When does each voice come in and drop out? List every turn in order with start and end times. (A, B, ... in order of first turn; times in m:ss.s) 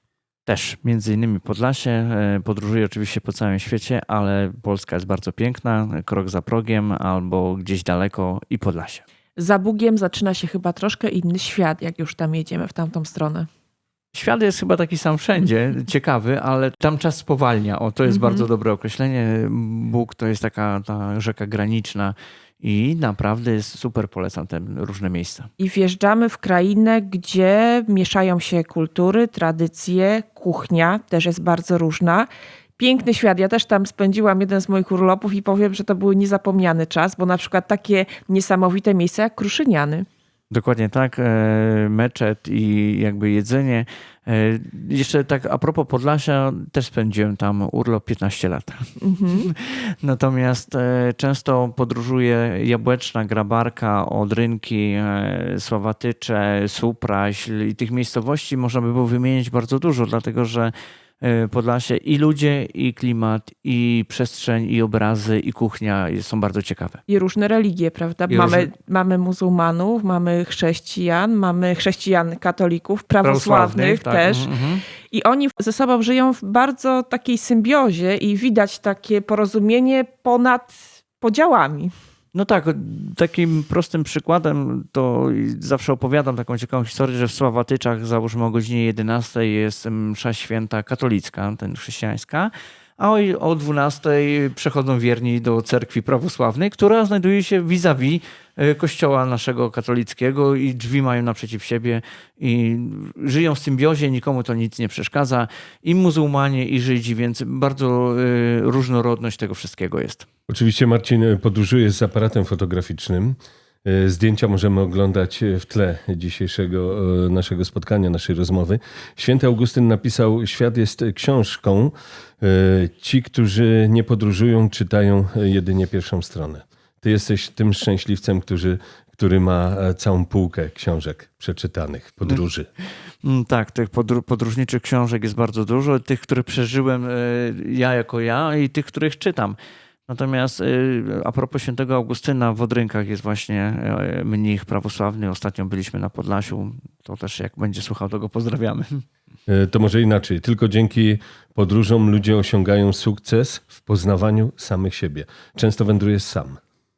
0:00.5-0:09.0 A
0:09.4-0:13.5 B
0:14.1-0:25.5 A
0:18.0-0:18.5 B
0:25.6-0:40.1 B
0:40.5-1:07.0 A
0:49.0-0:49.5 B
1:07.1-1:14.5 B
1:08.3-1:08.7 A
1:13.2-1:14.8 A
1:15.1-1:21.9 B
1:22.3-1:50.2 A
1:50.5-2:12.7 C
2:13.2-2:19.6 A
2:20.1-2:29.0 A
2:29.5-2:36.6 C